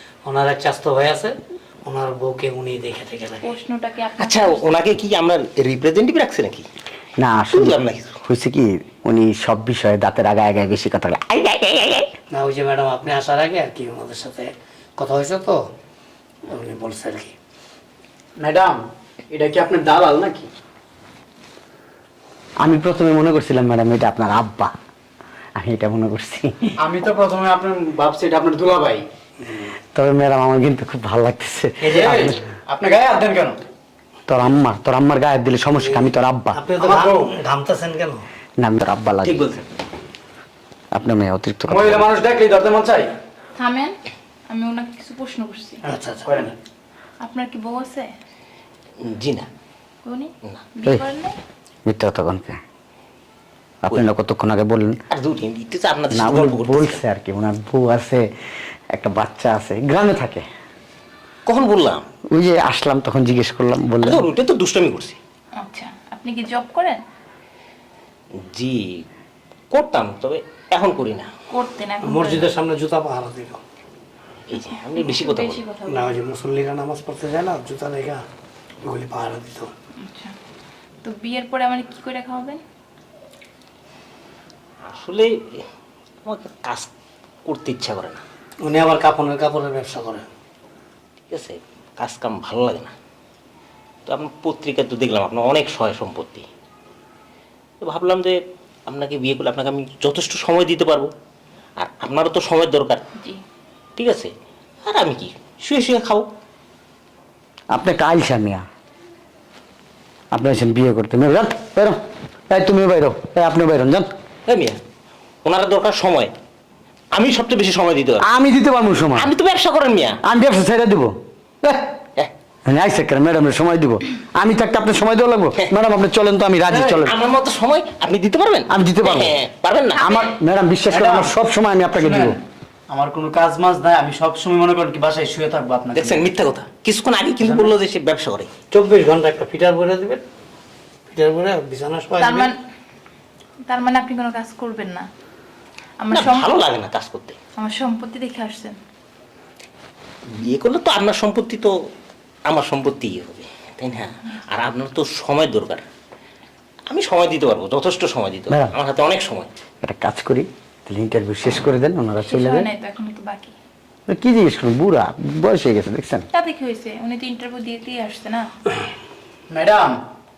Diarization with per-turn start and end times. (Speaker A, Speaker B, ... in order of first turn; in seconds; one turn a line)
Speaker A: 0.2-3.5
Speaker B: 3.4-4.7
Speaker C: 4.2-6.6
Speaker D: 7.2-12.1
Speaker C: 7.5-8.2
Speaker A: 12.3-15.6
Speaker A: 16.5-17.3
Speaker E: 18.4-18.8
Speaker E: 19.3-20.5
Speaker D: 22.6-24.7
Speaker D: 25.6-26.7
Speaker E: 26.8-29.0
Speaker D: 29.9-32.4
Speaker A: 31.8-32.3
Speaker E: 31.9-33.6
Speaker D: 34.3-36.6
Speaker A: 35.8-38.2
Speaker E: 36.8-37.3
Speaker D: 38.6-39.6
Speaker C: 39.2-39.6
Speaker D: 40.9-42.1
Speaker E: 41.7-43.1
Speaker B: 43.5-44.0
Speaker B: 44.5-45.8
Speaker A: 45.8-46.5
Speaker E: 46.2-46.5
Speaker B: 47.2-48.1
Speaker C: 49.0-49.5
Speaker B: 50.0-51.4
Speaker D: 51.9-52.6
Speaker D: 53.8-55.0
Speaker C: 55.1-57.0
Speaker D: 56.1-58.2
Speaker D: 58.9-60.5
Speaker C: 61.5-62.0
Speaker D: 62.3-64.2
Speaker C: 64.0-65.2
Speaker B: 65.6-67.0
Speaker C: 68.4-69.0
Speaker C: 69.7-71.3
Speaker B: 71.5-72.5
Speaker A: 72.0-73.6
Speaker C: 74.5-75.6
Speaker B: 74.5-76.2
Speaker A: 75.9-78.2
Speaker A: 78.8-79.7
Speaker B: 80.0-80.3
Speaker B: 81.0-82.6
Speaker C: 84.8-85.3
Speaker C: 86.2-86.9
Speaker C: 87.5-88.2
Speaker A: 88.6-90.2
Speaker C: 91.3-92.9
Speaker C: 94.1-96.5
Speaker C: 97.8-101.1
Speaker C: 101.8-103.0
Speaker C: 104.0-104.3
Speaker C: 104.8-106.3
Speaker D: 107.7-108.6
Speaker D: 110.3-112.0
Speaker D: 112.5-114.1
Speaker C: 114.5-114.8
Speaker C: 115.4-116.3
Speaker C: 117.1-118.2
Speaker D: 118.2-119.3
Speaker C: 119.1-120.2
Speaker D: 120.2-121.9
Speaker D: 122.7-127.1
Speaker E: 126.7-127.0
Speaker C: 127.1-130.2
Speaker D: 128.7-129.3
Speaker B: 130.0-130.3
Speaker D: 130.0-132.4
Speaker E: 130.9-131.3
Speaker E: 131.9-132.4
Speaker E: 132.9-136.2
Speaker C: 135.9-138.5
Speaker E: 137.4-137.7
Speaker A: 138.7-140.2
Speaker A: 141.1-142.5
Speaker B: 142.2-142.6
Speaker B: 143.6-145.1
Speaker B: 146.0-146.5
Speaker C: 146.1-147.4
Speaker B: 147.6-148.8
Speaker C: 150.4-151.7
Speaker C: 152.5-155.8
Speaker C: 156.9-159.5
Speaker D: 158.5-158.7
Speaker D: 159.8-162.7
Speaker B: 162.2-163.5
Speaker D: 164.1-166.2
Speaker B: 166.3-168.5
Speaker E: 169.5-169.9